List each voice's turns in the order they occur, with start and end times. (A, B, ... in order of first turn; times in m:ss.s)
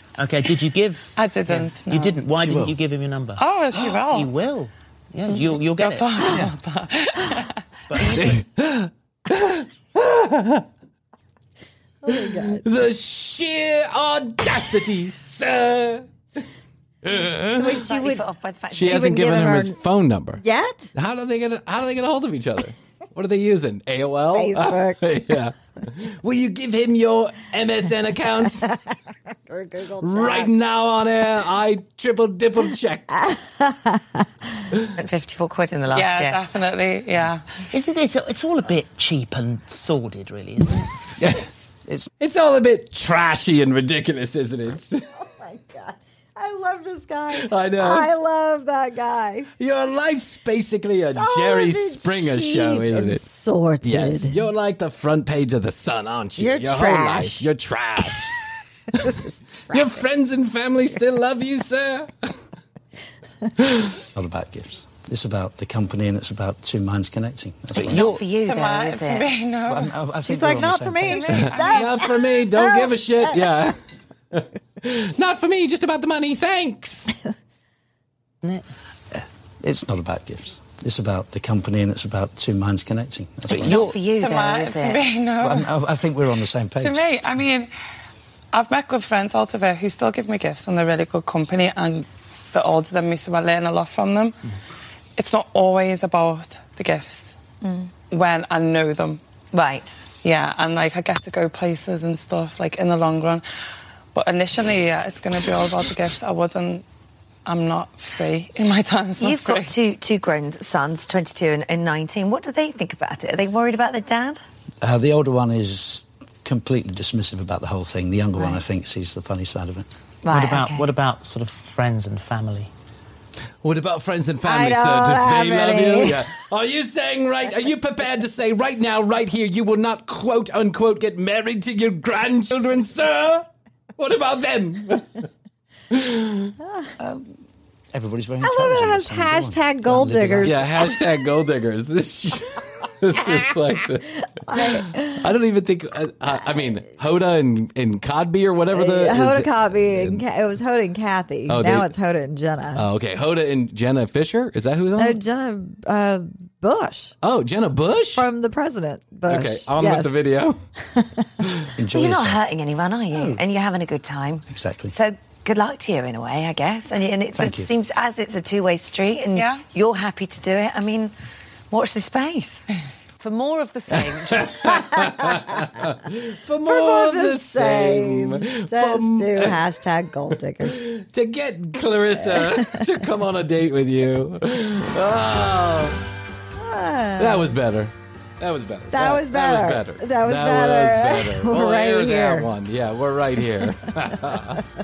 0:00.2-0:06.4 A
0:01.2-0:02.3 B
0:02.3-0:02.8 C
0:03.4-0:04.3 B
0:05.8-0:08.0 B
0:06.2-0:06.5 C
0:07.9-0:08.4 A
0:08.2-0:10.6 D
0:12.0-0:12.6 E
0:12.1-0:16.1 D
0:17.0-0:17.9 D
0:17.5-0:18.2 E
0:17.8-0:19.3 F
0:18.7-0:20.4 D
0:18.8-0:19.8 E
0:20.4-0:20.9 E
0:20.9-0:28.6 D
0:24.3-0:25.0 E
0:28.6-0:30.6 E
0:30.0-0:33.2 D
0:33.2-0:34.2 E
0:35.0-0:36.4 F
0:35.9-0:37.6 B
0:37.7-0:41.1 A
0:41.2-0:41.5 D
0:42.2-0:45.0 D
0:45.1-0:49.5 E
0:47.3-0:48.1 D
0:49.6-0:53.2 D
0:51.1-0:54.4 E
0:53.8-0:58.3 D
0:56.4-0:57.4 E
0:58.9-1:00.0 E
0:59.7-1:02.3 D
1:03.6-1:04.0 D
1:04.1-1:08.1 C
1:07.8-1:09.3 F
1:07.9-1:09.9 B
1:09.7-1:11.5 C
1:10.2-1:13.3 E
1:11.1-1:12.0 B
1:11.3-1:13.7 D
1:14.3-1:17.2 D
1:19.1-1:23.9 C
1:23.6-1:25.0 F
1:23.7-1:25.7 B
1:25.4-1:27.0 C
1:26.8-1:27.7 B
1:28.5-1:34.4 B
1:35.2-1:37.4 B
1:37.6-1:37.9 F
1:38.1-1:39.2 B
1:39.5-1:40.0 F
1:40.2-1:43.4 B
1:44.1-1:46.8 B
1:47.4-1:49.7 B
1:49.2-1:54.4 F
1:54.8-1:59.9 C
2:00.2-2:00.9 F
2:00.3-2:02.7 A
2:03.6-2:13.4 D
2:04.4-2:06.3 E
2:14.0-2:15.3 D
2:15.9-2:16.6 D
2:17.0-2:17.3 C
2:17.9-2:20.7 C
2:18.4-2:20.6 E
2:20.4-2:30.2 D
2:24.4-2:25.2 E
2:28.7-2:32.8 E
2:31.5-2:31.9 D
2:32.8-2:35.2 D
2:35.0-2:37.1 E
2:37.2-2:38.2 D
2:38.1-2:40.1 E
2:39.3-2:40.6 D
2:40.9-2:41.2 E
2:41.8-2:42.4 C
2:41.9-2:51.1 F
2:44.5-2:44.9 C
2:47.3-2:47.7 C
2:49.4-2:49.6 B
2:51.7-2:52.6 F
2:53.2-2:54.6 F
2:53.9-2:59.6 D
2:54.7-2:55.4 E
2:56.6-3:00.8 E
3:00.6-3:06.0 D
3:02.2-3:02.8 E
3:06.6-3:07.5 E
3:07.2-3:14.6 D
3:08.9-3:12.5 E